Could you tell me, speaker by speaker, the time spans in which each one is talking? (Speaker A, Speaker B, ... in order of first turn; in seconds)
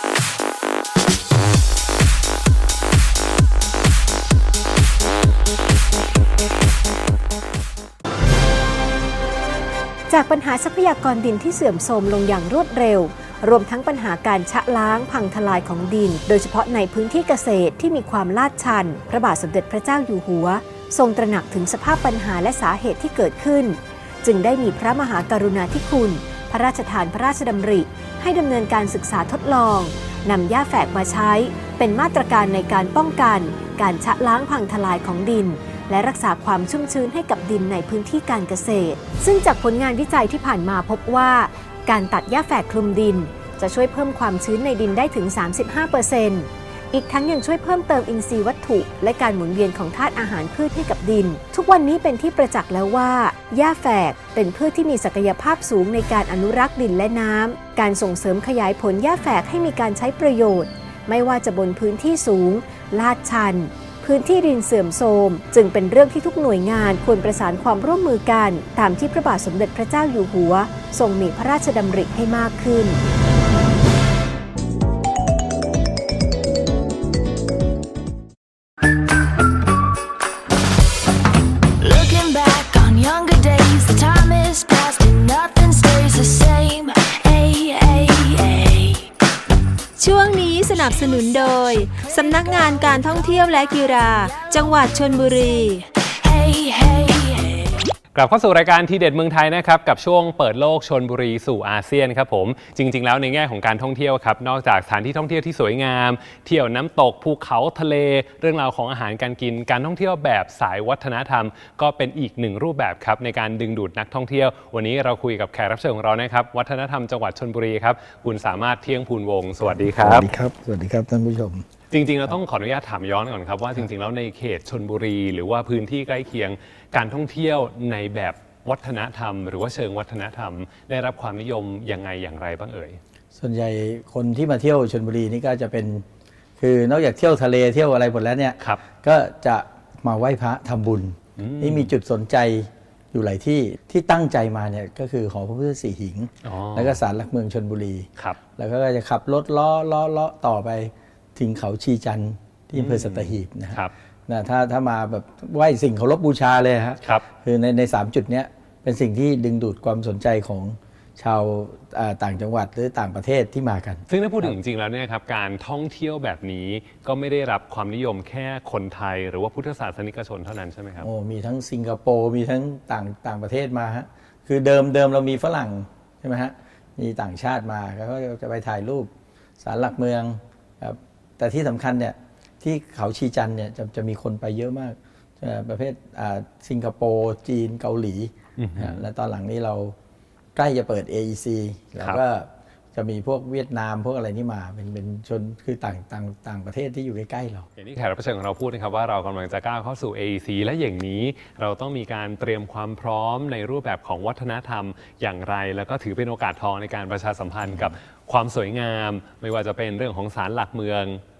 Speaker A: 10.1-73.0
Speaker B: 81.8-89.0, 90.0-97.8
Speaker C: 98.1-120.3, 121.9-133.0, 138.6-138.8, 141.4-141.9, 146.4-147.0, 152.7-153.9, 164.1-171.1, 188.6-189.1, 192.0-192.2, 197.8-211.2
Speaker D: 119.6-121.6, 133.3-136.0, 136.6-164.5, 171.0-179.1, 179.6-189.9, 190.6-197.7